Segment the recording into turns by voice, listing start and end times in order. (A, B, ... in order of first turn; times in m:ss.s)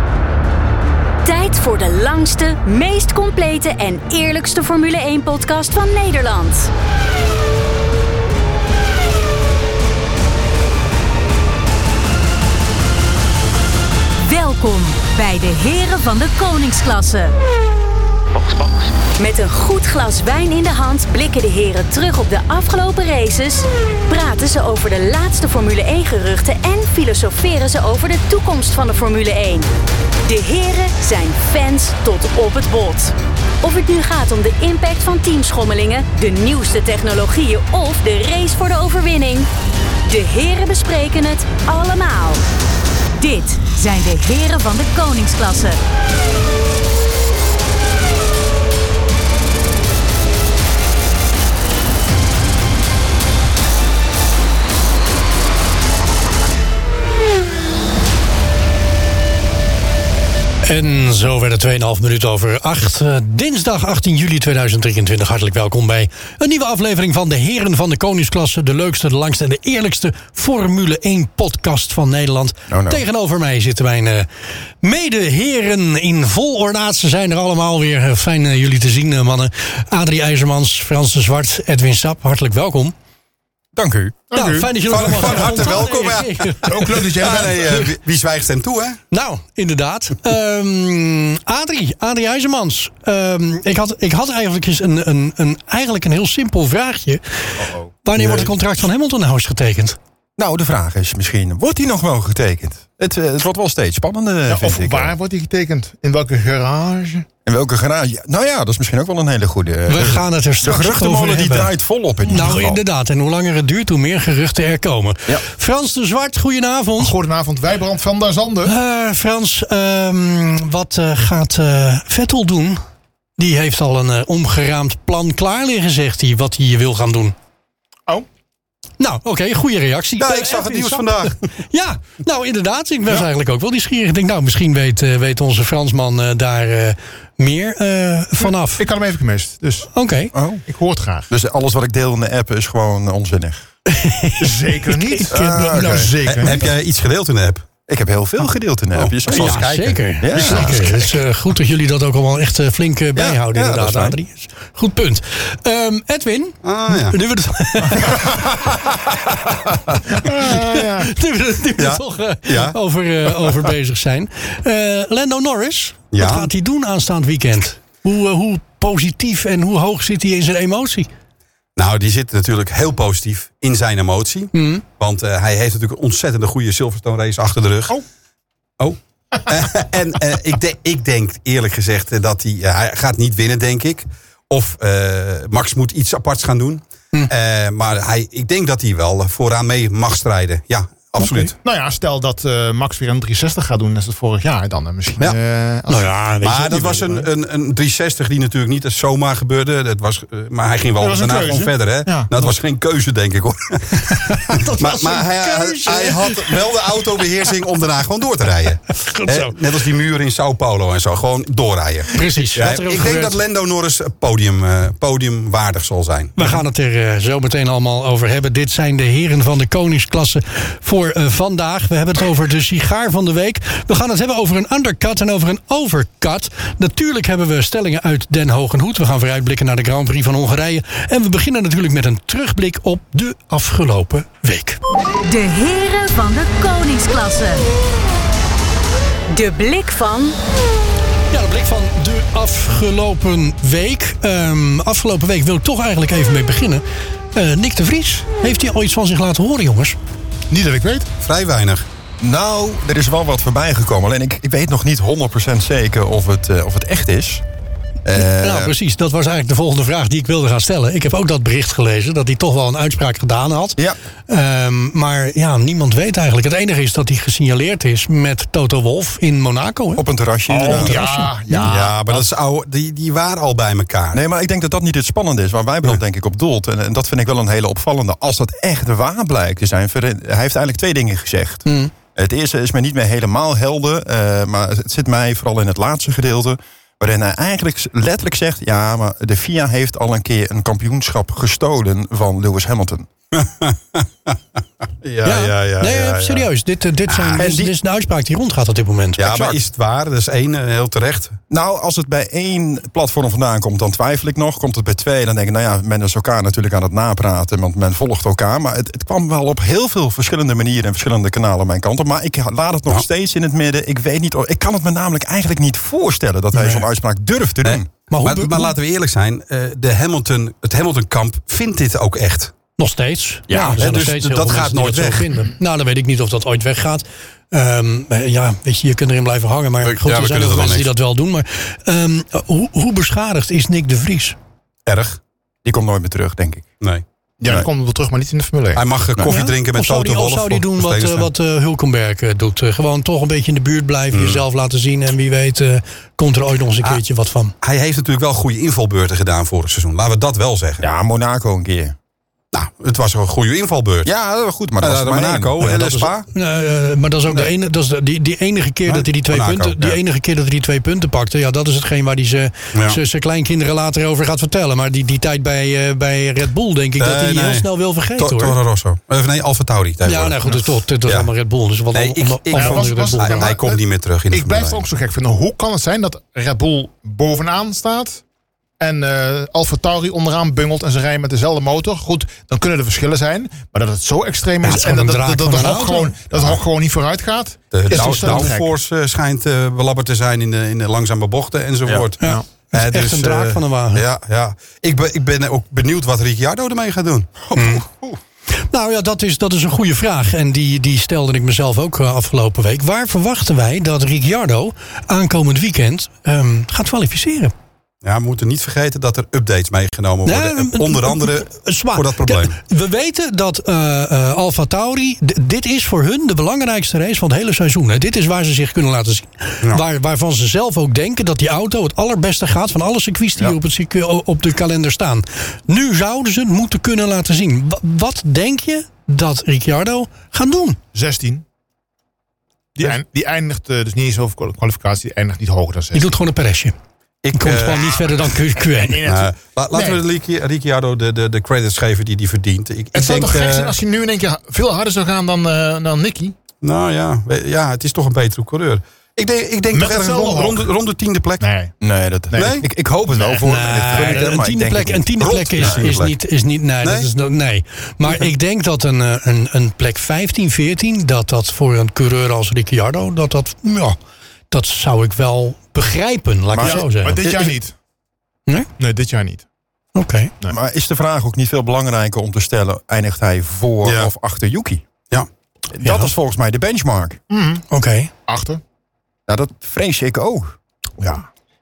0:01.2-0:06.7 A
0:14.2-0:17.3 A
0:18.4-0:29.7 A
0:30.2-0:39.5 A
0:40.1-0:42.4 A
0:43.2-0:45.8 A
1:00.6-1:14.3 B
1:12.7-1:13.0 C
1:14.8-1:22.9 B
1:23.7-1:24.2 C
1:24.3-1:25.5 D
1:24.3-1:27.0 B
1:24.9-1:29.0 E
1:26.7-1:27.9 D
1:29.1-1:40.0 B
1:37.6-1:38.5 C
1:40.4-1:45.1 C
1:44.5-1:47.3 D
1:47.5-1:52.8 C
1:49.9-1:51.7 B
1:52.2-1:57.1 B
1:57.0-1:58.7 D
1:58.6-2:02.8 B
2:03.4-2:07.4 B
2:09.0-2:18.8 B
2:10.2-2:11.5 E
2:18.4-2:19.9 D
2:19.9-2:20.3 B
2:20.3-2:20.6 C
2:20.7-2:21.3 D
2:21.3-2:23.7 C
2:23.9-2:26.1 B
2:24.4-2:26.7 D
2:25.3-2:26.1 C
2:26.3-2:27.7 E
2:27.9-2:31.2 C
2:28.9-2:30.9 E
2:29.3-2:38.3 B
2:33.2-2:34.2 C
2:36.6-2:37.2 E
2:38.1-2:39.7 C
2:40.1-2:41.1 D
2:40.2-2:51.1 B
2:41.8-2:42.8 E
2:46.1-2:46.5 E
2:51.8-2:58.0 E
2:54.5-2:54.8 B
2:58.8-3:11.5 E
3:11.2-3:11.5 B
3:11.6-3:16.1 D
3:15.9-3:17.2 B
3:16.4-3:36.6 E
3:21.0-3:22.3 D
3:24.0-3:26.6 B
3:29.0-3:29.6 B
3:32.1-3:33.4 B
3:36.4-3:54.8 B
3:55.2-3:57.7 A
3:59.3-4:00.4 A
4:01.3-4:10.0 B
4:10.5-4:11.1 D
4:11.2-4:11.8 E
4:12.2-4:17.4 C
4:18.1-4:18.7 C
4:18.2-4:30.0 B
4:30.0-4:31.7 C
4:30.5-4:32.3 D
4:30.6-4:31.3 B
4:31.7-4:34.2 E
4:34.1-4:53.1 C
4:41.7-4:41.9 B
4:53.3-4:54.4 E
4:55.0-4:56.5 E
4:55.3-4:59.3 B
4:57.1-4:57.4 E
4:57.3-4:57.7 C
4:59.2-5:01.4 E
4:59.2-4:59.6 C
5:01.5-5:17.9 C
5:16.6-5:16.8 B
5:17.6-5:22.5 E
5:18.1-5:18.8 B
5:22.8-5:34.4 B
5:23.5-5:23.8 C
5:23.7-5:25.4 E
5:29.8-5:30.9 E
5:34.9-5:35.2 E
5:35.6-5:36.7 C
5:37.4-5:38.8 D
5:38.8-5:41.3 E
5:39.3-5:47.5 B
5:44.1-5:44.4 E
5:47.6-5:50.9 E
5:50.8-5:52.0 C
5:52.5-5:54.1 E
5:54.0-5:55.6 C
5:54.8-5:56.3 E
5:55.6-6:08.6 B
5:58.9-6:00.0 E
6:07.0-6:11.3 E
6:10.0-6:13.6 B
6:11.9-6:14.8 E
6:12.5-6:18.2 D
6:18.8-6:28.7 D
6:24.6-6:26.2 B
6:27.7-6:37.3 E
6:27.9-6:28.5 B
6:32.2-6:34.0 B
6:37.5-6:38.2 C
6:37.6-6:37.8 B
6:38.7-6:47.5 B
6:48.0-6:52.6 E
6:50.3-7:10.8 B
7:10.9-7:11.4 D
7:12.8-7:16.1 D
7:15.9-7:16.7 B
7:17.2-7:18.1 E
7:17.3-7:19.0 B
7:18.7-7:20.0 D
7:19.1-7:23.8 E
7:22.9-7:26.4 D
7:26.6-7:31.4 E
7:29.7-7:30.7 D
7:31.4-7:31.7 D
7:31.8-7:36.1 C
7:32.4-7:32.7 E
7:33.1-7:34.0 D
7:33.4-7:44.0 B
7:35.2-7:36.1 E
7:44.5-7:47.2 B
7:46.5-7:47.5 C
7:46.6-7:47.7 D
7:48.8-7:49.4 D
7:50.0-7:50.3 B
7:50.5-7:54.8 C
7:53.8-7:54.1 E
7:55.7-7:57.2 C
7:55.8-7:56.1 B
7:57.3-7:57.6 D
7:57.7-7:58.1 B
7:58.3-7:58.6 D
7:59.3-8:00.6 C
8:01.0-8:01.3 D